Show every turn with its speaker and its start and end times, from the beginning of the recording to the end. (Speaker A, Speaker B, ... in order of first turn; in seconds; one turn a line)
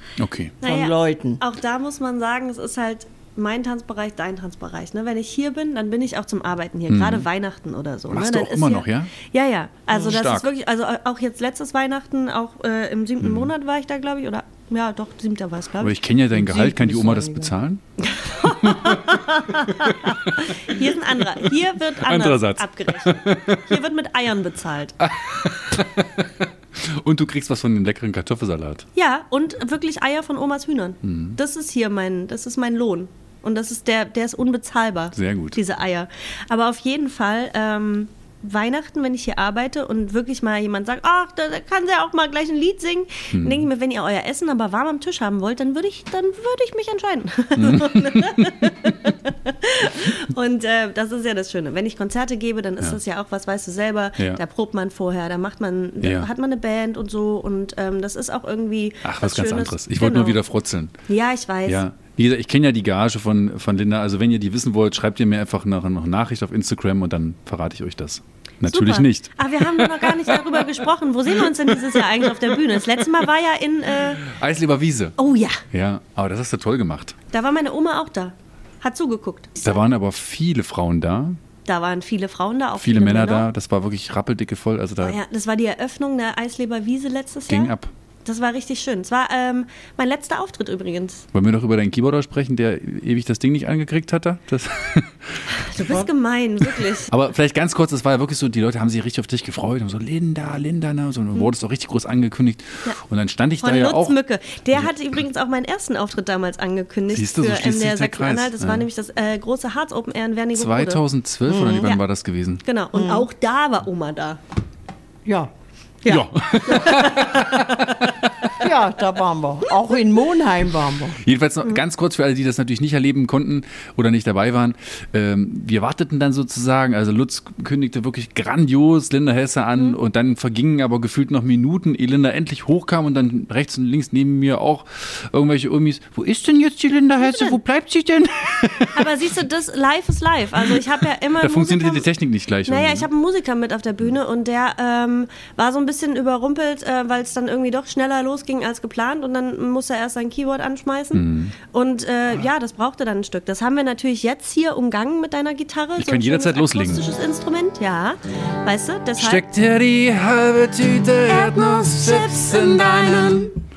Speaker A: 0.2-0.6
Speaker B: 0.6-1.4
Speaker C: 0.6-16.0
Speaker A: 6.9-7.3
Speaker A: 8.1-9.1
Speaker A: 9.9-10.5
Speaker A: 13.2-13.5
Speaker A: 15.8-17.8
Speaker B: 16.3-17.5
Speaker C: 18.0-25.0
Speaker A: 18.4-19.1
Speaker A: 19.9-20.2
Speaker A: 22.0-23.7
Speaker A: 25.0-28.9
Speaker C: 28.9-60.4
Speaker A: 31.0-31.4
Speaker A: 35.1-35.6
Speaker A: 43.3-43.7
Speaker A: 47.6-48.9
Speaker A: 56.0-56.3
Speaker A: 59.0-60.9
Speaker C: 61.1-61.8
Speaker A: 61.7-70.7
Speaker C: 68.6-74.2
Speaker A: 71.5-72.6
Speaker A: 74.2-75.2
Speaker C: 75.2-75.6
Speaker A: 75.7-77.2
Speaker C: 77.3-79.8
Speaker A: 79.6-81.4
Speaker C: 81.7-83.5
Speaker A: 82.8-85.2
Speaker C: 85.0-91.3
Speaker A: 87.5-87.9
Speaker A: 91.3-96.1
Speaker C: 95.5-97.1
Speaker A: 96.6-104.2
Speaker C: 103.6-111.0
Speaker A: 107.1-108.9
Speaker A: 110.5-112.6
Speaker B: 111.5-111.9
Speaker C: 112.6-114.4
Speaker B: 112.9-113.3
Speaker B: 115.2-115.5
Speaker C: 116.0-118.1
Speaker A: 116.1-117.9
Speaker B: 116.8-117.4
Speaker B: 118.6-121.2
Speaker A: 121.2-139.1
Speaker C: 137.2-137.6
Speaker C: 138.9-142.1
Speaker A: 140.7-143.1
Speaker C: 142.7-159.5
Speaker A: 151.1-151.6
Speaker A: 156.0-157.1
Speaker A: 159.2-163.5
Speaker C: 161.3-163.6